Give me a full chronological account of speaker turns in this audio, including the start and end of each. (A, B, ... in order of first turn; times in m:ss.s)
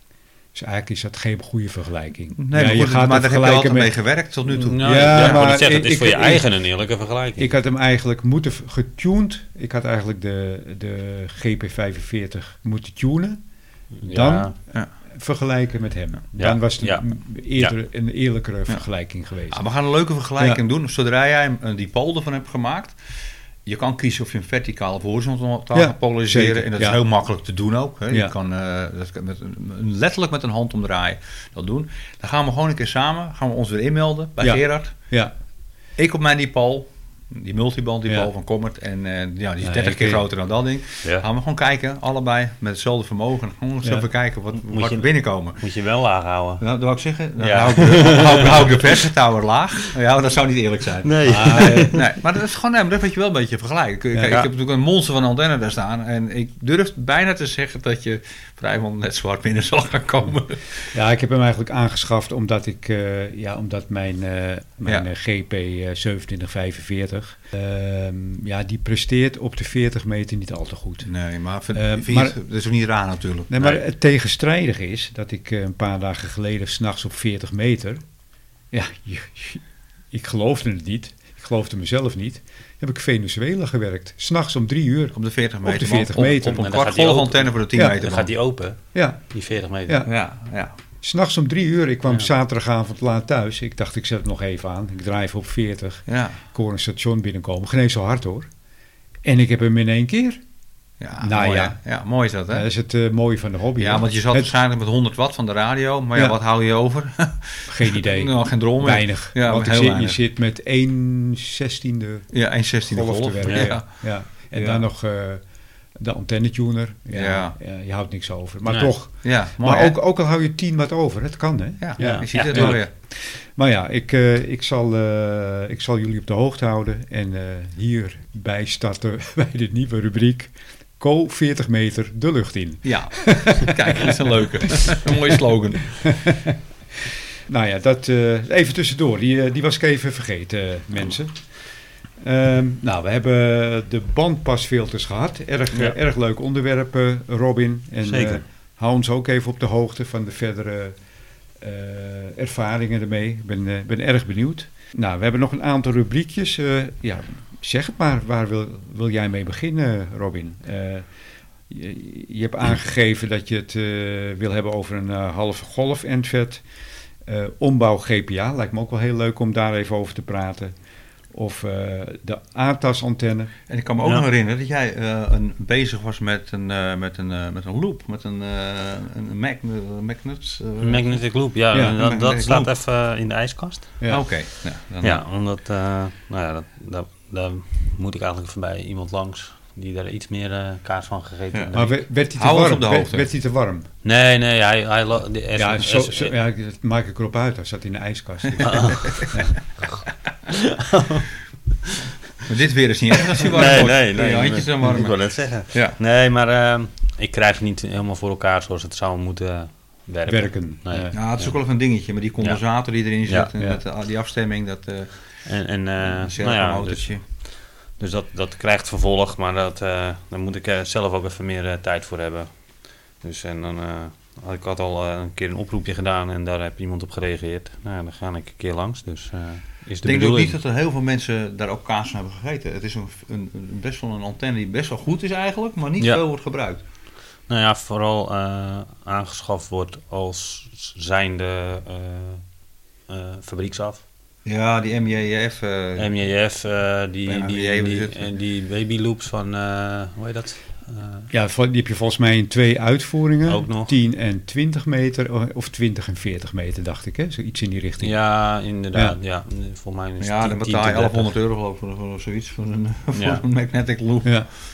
0:00.5-0:03.9 A
0:02.4-0:05.5 B
0:04.6-0:07.5 C
0:04.7-0:06.4 A
0:07.4-0:13.4 A
0:14.0-0:14.5 C
0:14.0-0:14.5 A
0:15.1-0:19.6 A
0:16.4-0:17.0 C
0:19.5-0:23.0 B
0:23.6-0:34.9 B
0:25.7-0:27.0 A
0:34.4-0:35.3 A
0:36.0-0:45.6 B
0:39.6-0:40.2 A
0:44.6-0:46.6 C
0:46.6-1:00.9 B
0:47.4-0:49.0 C
0:51.0-0:52.0 C
0:51.2-0:51.9 A
1:00.9-1:11.1 A
1:11.0-1:13.6 B
1:11.7-1:12.3 A
1:13.5-1:18.0 A
1:18.7-1:26.6 A
1:25.1-1:28.3 B
1:26.4-1:28.8 C
1:28.9-1:29.2 A
1:29.3-1:30.0 C
1:30.0-1:30.7 B
1:31.0-1:38.5 A
1:36.1-1:36.4 B
1:39.2-1:40.4 A
1:41.0-1:42.7 B
1:41.2-1:41.8 A
1:42.5-1:44.5 A
1:43.8-1:50.2 B
1:47.7-1:55.4 A
1:52.3-1:54.8 B
1:53.4-1:53.7 C
1:56.0-2:15.1 A
1:57.1-1:57.6 B
1:58.7-1:58.9 C
1:59.2-2:00.0 B
2:01.8-2:02.9 B
2:02.0-2:02.8 C
2:12.8-2:16.1 B
2:16.0-2:21.5 A
2:22.2-2:30.9 A
2:28.0-2:28.4 C
2:31.6-2:41.1 A
2:41.7-2:46.6 A
2:47.2-2:50.7 A
2:51.3-2:53.5 A
2:53.7-3:01.2 B
3:00.8-3:03.9 C
3:02.0-3:02.7 B
3:04.1-3:05.2 B
3:05.0-3:12.0 C
3:11.7-3:13.9 A
3:12.3-3:13.3 B
3:14.0-3:16.3 C
3:15.6-3:19.6 A
3:18.6-3:19.0 C
3:20.5-3:21.3 C
3:22.4-3:25.2 B
3:23.4-3:31.5 C
3:25.7-3:26.0 B
3:30.3-3:31.2 A
3:31.1-3:35.1 B
3:35.5-3:37.1 C
3:36.0-3:37.2 B
3:38.0-3:42.5 C
3:43.2-3:50.6 C
3:50.0-3:56.8 B
3:57.5-4:02.4 C
4:03.1-4:04.0 C
4:04.4-4:06.1 B
4:06.0-4:11.3 C
4:07.3-4:08.3 B
4:11.3-4:18.2 A
4:13.5-4:13.9 C
4:18.0-4:21.3 C
4:20.2-4:24.4 B
4:23.1-4:23.4 C